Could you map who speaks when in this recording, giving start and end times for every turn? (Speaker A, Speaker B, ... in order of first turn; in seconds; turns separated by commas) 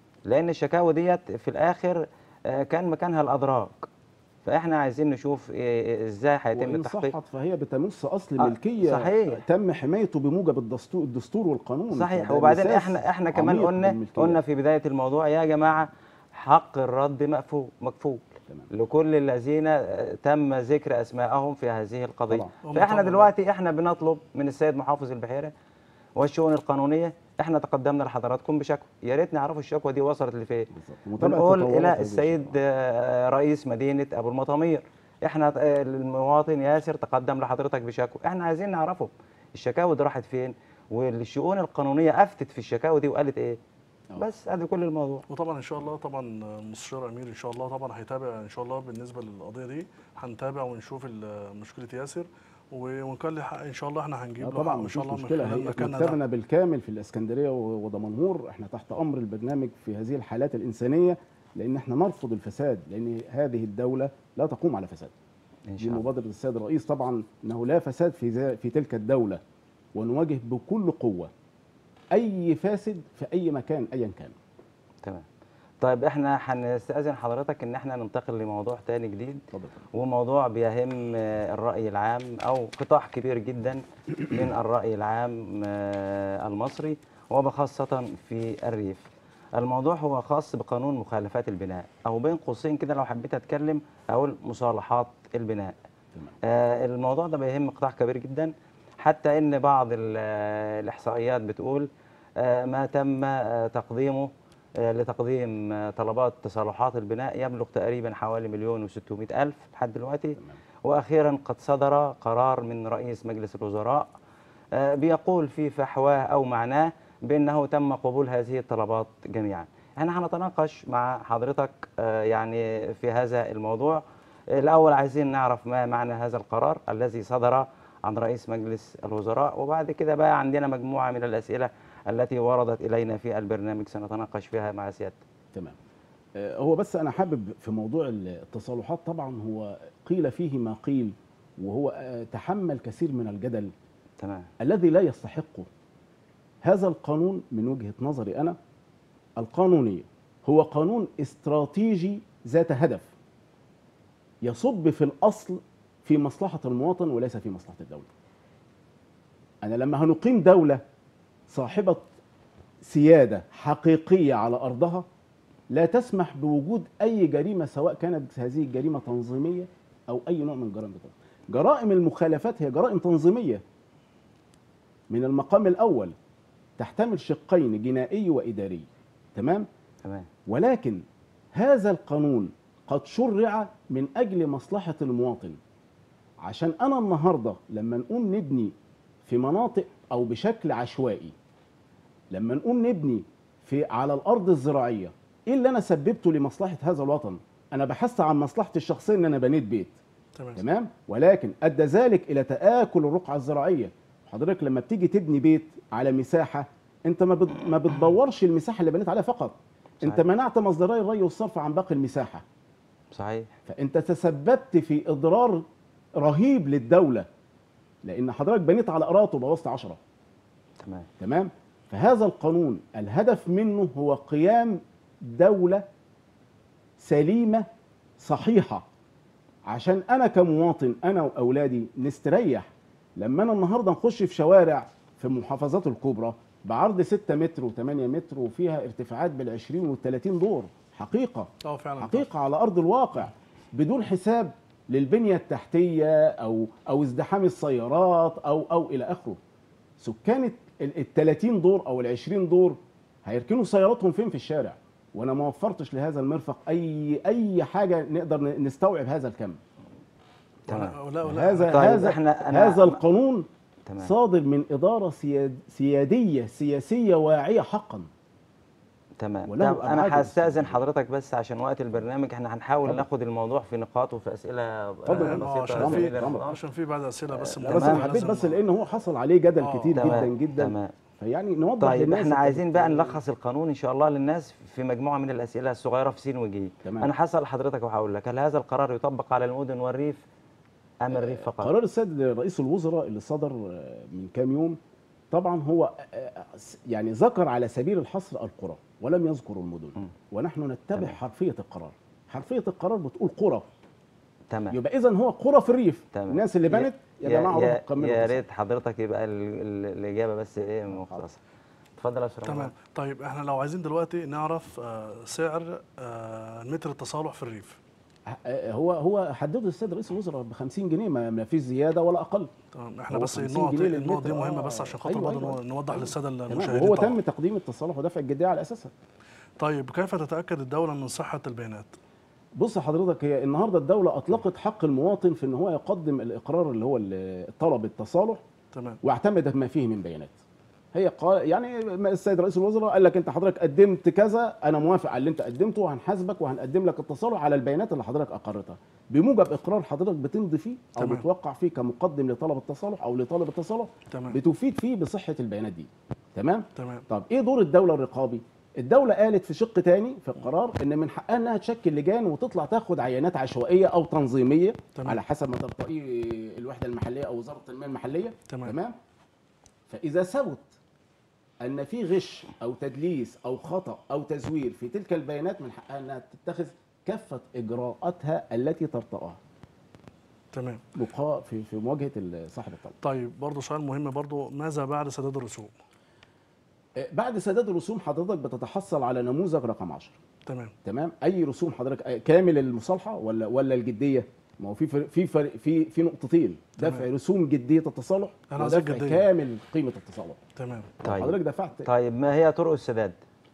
Speaker A: 0.3-3.9, Speaker A: 4.4-7.1, Speaker B: 6.5-14.4, Speaker A: 8.4-9.4, Speaker A: 11.9-25.5, Speaker C: 22.6-23.3, Speaker A: 26.2-30.7, Speaker B: 30.7-32.5, Speaker A: 31.2-43.6, Speaker A: 44.1-45.2, Speaker C: 45.3-56.2, Speaker B: 54.4-65.1, Speaker A: 65.7-66.0, Speaker B: 65.8-69.4, Speaker B: 69.9-71.3, Speaker B: 72.1-74.3, Speaker A: 75.8-79.4, Speaker B: 79.5-79.8, Speaker A: 79.9-89.0, Speaker A: 89.5-95.7, Speaker A: 96.4-101.9, Speaker A: 102.4-114.1, Speaker A: 114.7-124.0, Speaker A: 124.5-135.2, Speaker B: 136.3-143.7, Speaker A: 144.2-144.5, Speaker B: 144.6-145.7, Speaker B: 146.6-148.6, Speaker B: 149.4-153.1, Speaker B: 154.4-158.1, Speaker B: 159.6-160.8, Speaker B: 161.5-162.1, Speaker B: 162.8-165.1, Speaker B: 165.7-173.6, Speaker B: 175.1-176.1, Speaker B: 176.8-179.7, Speaker B: 180.5-185.6, Speaker B: 186.4-188.7, Speaker B: 189.3-191.3, Speaker B: 192.3-199.9, Speaker C: 200.3-200.6, Speaker B: 200.6-212.4, Speaker A: 213.1-213.5, Speaker B: 213.7-215.6, Speaker B: 216.2-217.3, Speaker B: 218.0-220.0, Speaker A: 220.8-221.1, Speaker B: 221.2-225.8, Speaker B: 227.0-227.7, Speaker B: 228.2-228.8, Speaker B: 229.7-249.4, Speaker C: 241.6-242.3, Speaker B: 250.0-259.6, Speaker A: 260.7-261.0, Speaker C: 260.7-261.9, Speaker B: 261.2-263.5, Speaker A: 261.7-263.0, Speaker A: 263.9-264.1, Speaker B: 264.0-268.1, Speaker A: 269.2-276.6, Speaker B: 269.5-270.8, Speaker C: 275.1-278.6, Speaker B: 275.1-276.4, Speaker A: 277.3-278.0, Speaker B: 277.6-283.2, Speaker C: 279.6-280.1, Speaker A: 279.9-280.9, Speaker A: 281.8-290.2, Speaker B: 286.8-287.1, Speaker A: 291.0-291.7, Speaker B: 291.1-294.8, Speaker B: 295.3-303.7, Speaker A: 304.5-304.8, Speaker B: 304.7-308.4, Speaker A: 306.1-311.4, Speaker B: 310.9-311.2, Speaker A: 312.0-312.7, Speaker C: 312.4-317.8, Speaker B: 318.3-322.5, Speaker C: 322.7-327.2, Speaker B: 323.1-328.9, Speaker C: 329.6-331.9, Speaker B: 332.6-338.4, Speaker C: 338.7-339.0, Speaker B: 339.0-340.3, Speaker B: 340.9-368.9, Speaker C: 351.0-351.2, Speaker C: 354.1-354.4, Speaker C: 356.8-357.0, Speaker C: 364.9-365.2, Speaker C: 368.5-368.8, Speaker B: 369.9-370.7, Speaker B: 371.6-379.4, Speaker C: 380.5-380.8, Speaker B: 380.9-382.9, Speaker C: 383.0-385.7, Speaker B: 387.0-390.2, Speaker C: 390.5-390.7, Speaker B: 390.8-400.4, Speaker C: 396.8-397.1, Speaker C: 398.5-399.2, Speaker C: 400.6-400.9, Speaker B: 401.0-401.9, Speaker A: 401.0-403.2